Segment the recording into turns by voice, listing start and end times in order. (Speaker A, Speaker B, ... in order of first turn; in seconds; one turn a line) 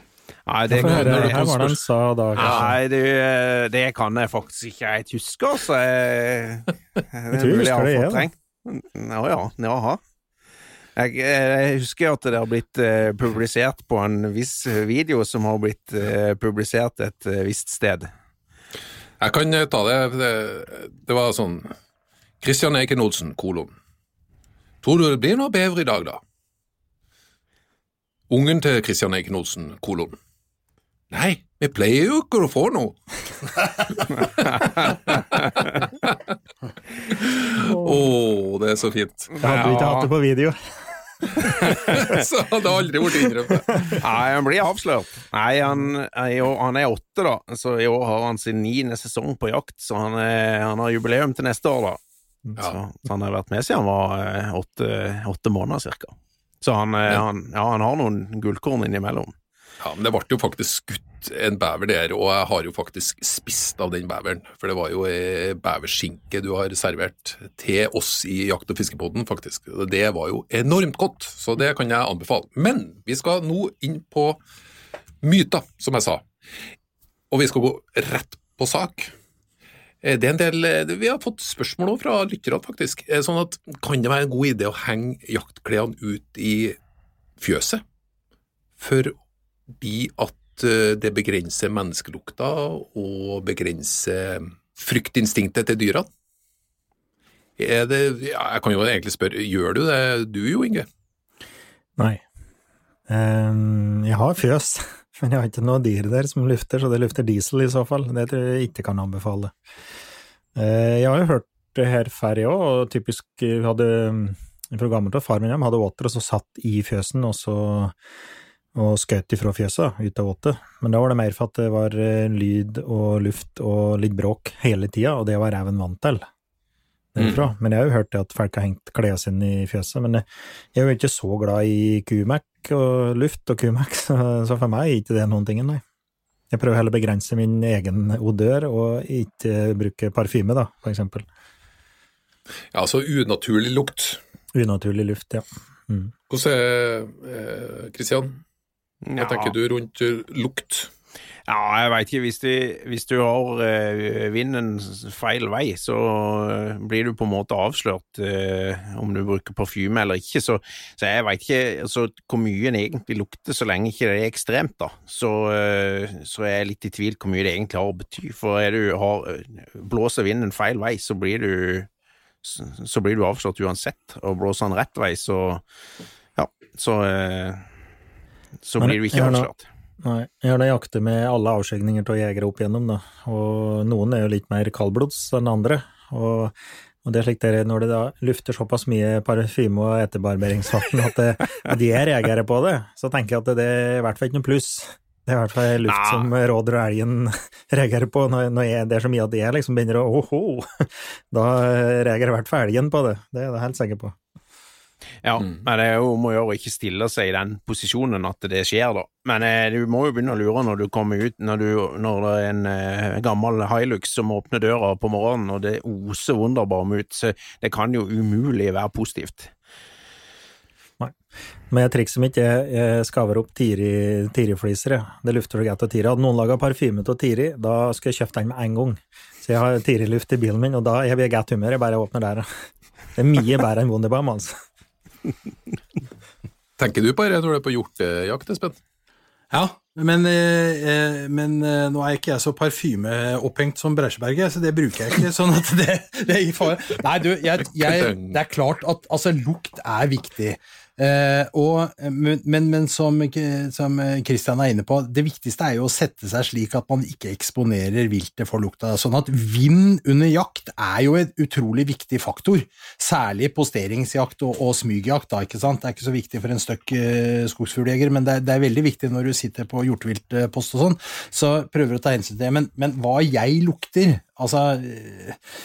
Speaker A: 0.5-1.8
Speaker B: 0.7-2.8
Speaker C: 0.8-1.6
Speaker A: 2.4-10.0
Speaker C: 2.4-2.7
Speaker B: 7.3-8.3
Speaker A: 11.0-18.1
Speaker C: 19.2-21.7
Speaker C: 22.4-23.7
Speaker C: 24.8-26.2
Speaker C: 28.3-30.2
Speaker C: 31.1-36.2
Speaker C: 37.0-40.0
Speaker B: 39.4-41.8
Speaker A: 39.4-40.1
Speaker C: 41.4-44.0
Speaker A: 41.7-42.1
Speaker A: 43.9-52.0
Speaker A: 52.6-59.3
Speaker C: 59.8-74.4
Speaker C: 75.2-76.2
Speaker C: 77.3-79.1
Speaker C: 80.0-86.8
Speaker C: 87.4-87.8
Speaker C: 88.8-89.2
Speaker C: 89.8-96.1
Speaker C: 97.6-100.9
Speaker B: 102.0-102.2
Speaker B: 103.1-109.5
Speaker B: 110.6-118.0
Speaker B: 118.8-126.3
Speaker B: 127.2-135.8
Speaker C: 127.2-127.5
Speaker B: 136.5-141.3
Speaker C: 142.7-144.2
Speaker B: 144.5-146.1
Speaker C: 146.3-148.4
Speaker A: 149.1-149.5
Speaker C: 149.2-150.9
Speaker A: 151.5-171.9
Speaker A: 172.4-175.6
Speaker A: 176.4-177.7
Speaker A: 178.6-179.7
Speaker B: 178.8-179.5
Speaker B: 180.0-204.2
Speaker A: 195.9-196.3
Speaker A: 205.2-219.5
Speaker B: 221.7-232.5
Speaker B: 233.2-234.6
Speaker C: 236.8-238.8
Speaker D: 239.5-275.4
Speaker C: 247.8-248.3